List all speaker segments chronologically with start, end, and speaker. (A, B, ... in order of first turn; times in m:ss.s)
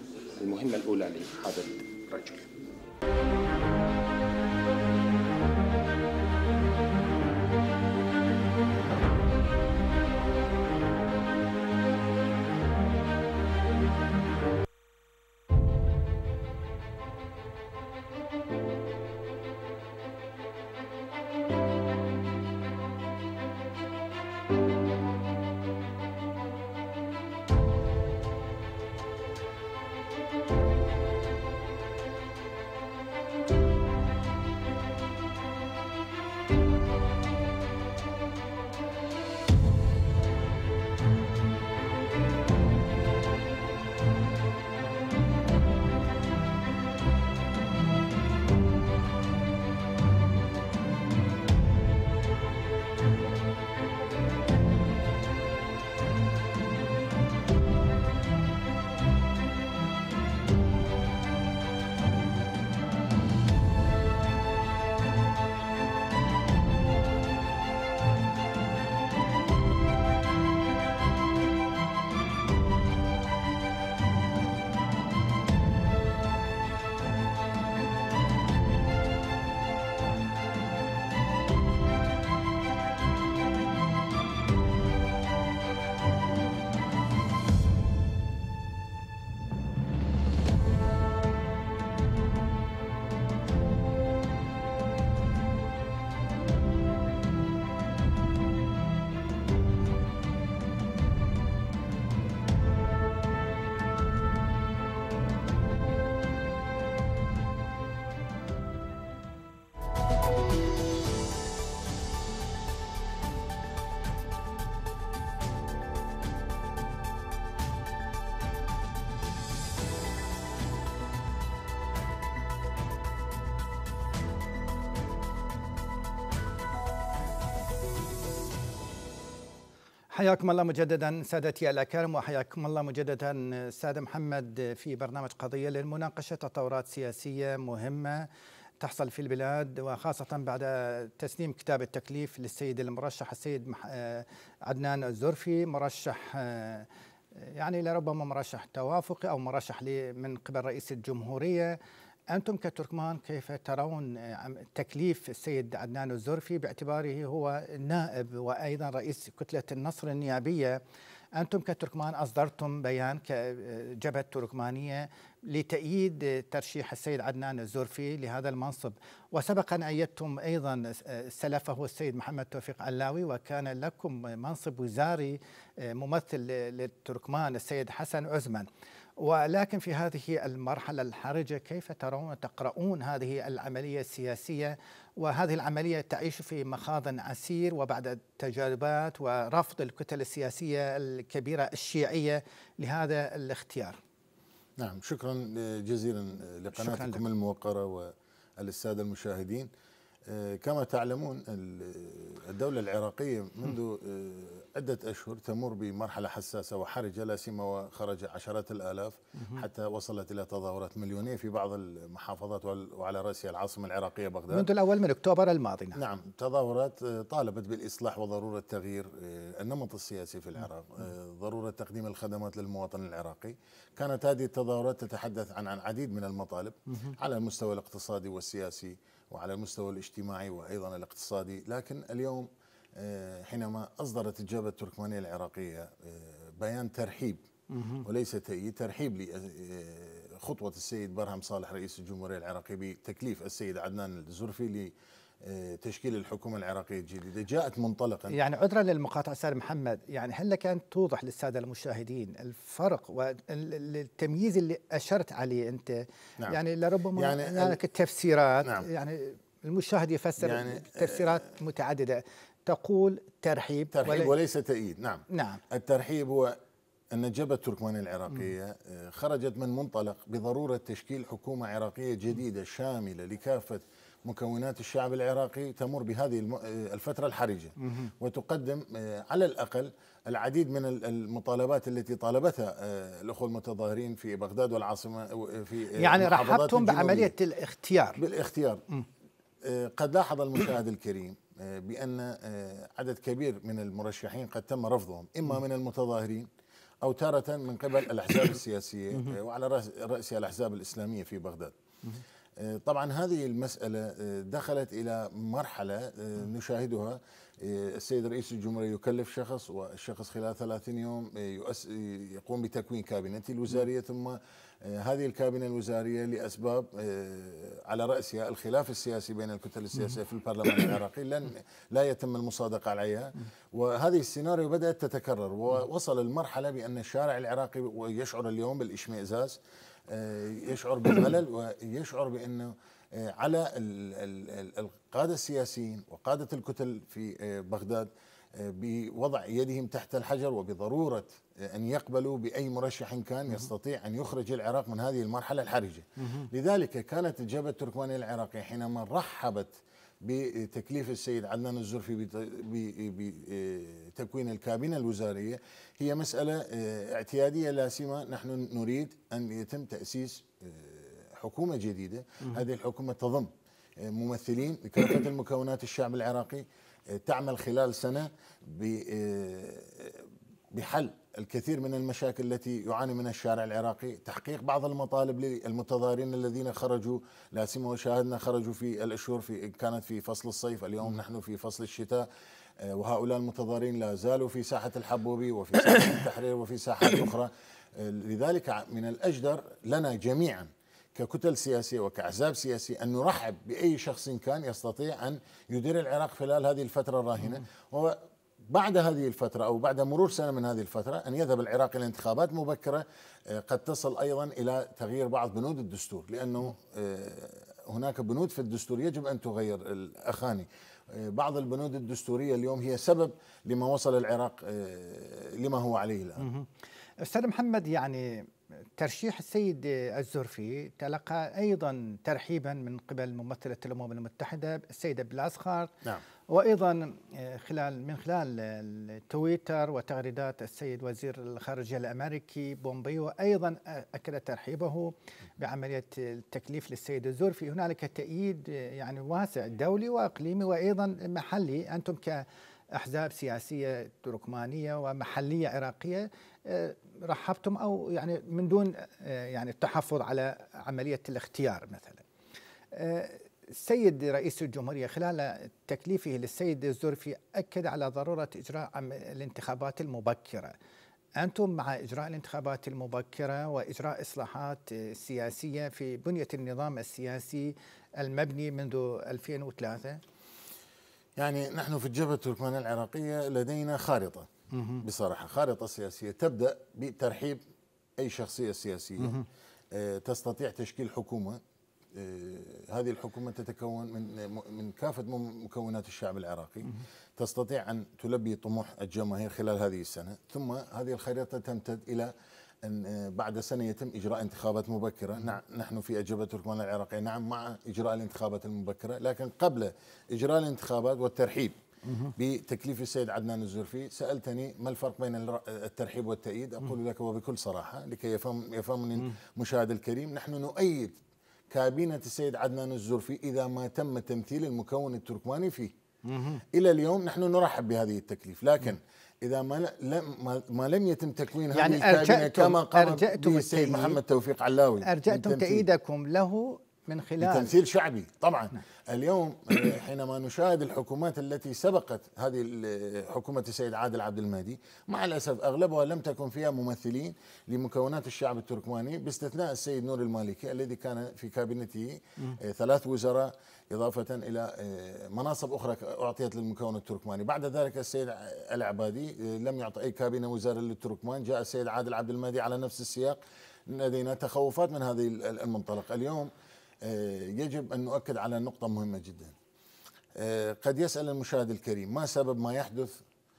0:00.4-0:02.5 A
2:10.1-2:18.3 B
2:18.8-2:31.8 B
2:32.3-2:40.8 B
2:41.4-2:58.7 B
2:59.2-3:14.0 B
3:14.8-3:19.7 C
3:16.8-3:17.2 B
3:20.3-3:34.7 C
3:34.5-3:36.0 B
3:36.0-3:57.4 C
3:57.7-3:58.0 B
3:58.0-4:08.4 C
4:08.3-4:24.4 B
4:17.2-4:17.8 C
4:20.4-4:21.4 C
4:23.9-4:26.6 C
4:25.3-4:25.6 B
4:27.1-4:47.3 C
4:37.8-4:38.1 B
4:46.0-4:48.2 B
4:48.2-4:48.8 C
4:49.6-4:56.5 C
4:57.0-5:01.8 C
5:02.6-6:22.3 C
6:22.8-6:38.2 C
6:38.7-6:56.5 C
6:56.4-6:56.7 B
6:57.2-7:05.9 B
7:06.5-7:22.4 B
7:23.0-7:32.2 B
7:32.9-7:40.7 B
7:41.4-7:50.2 B
7:51.4-7:54.5 C
7:54.7-7:55.0 B
7:55.0-7:57.6 C
7:58.2-7:59.4 C
7:59.9-8:01.6 C
8:02.1-8:12.3 C
8:12.8-8:21.8 C
8:22.1-8:22.3 B
8:22.4-8:31.2 C
8:31.7-8:35.9 C
8:36.3-8:36.6 B
8:36.7-8:45.9 C
8:41.7-8:44.2 B
8:45.0-8:47.8 B
8:47.4-9:16.5 C
9:17.0-9:19.6 C
9:20.4-9:23.2 C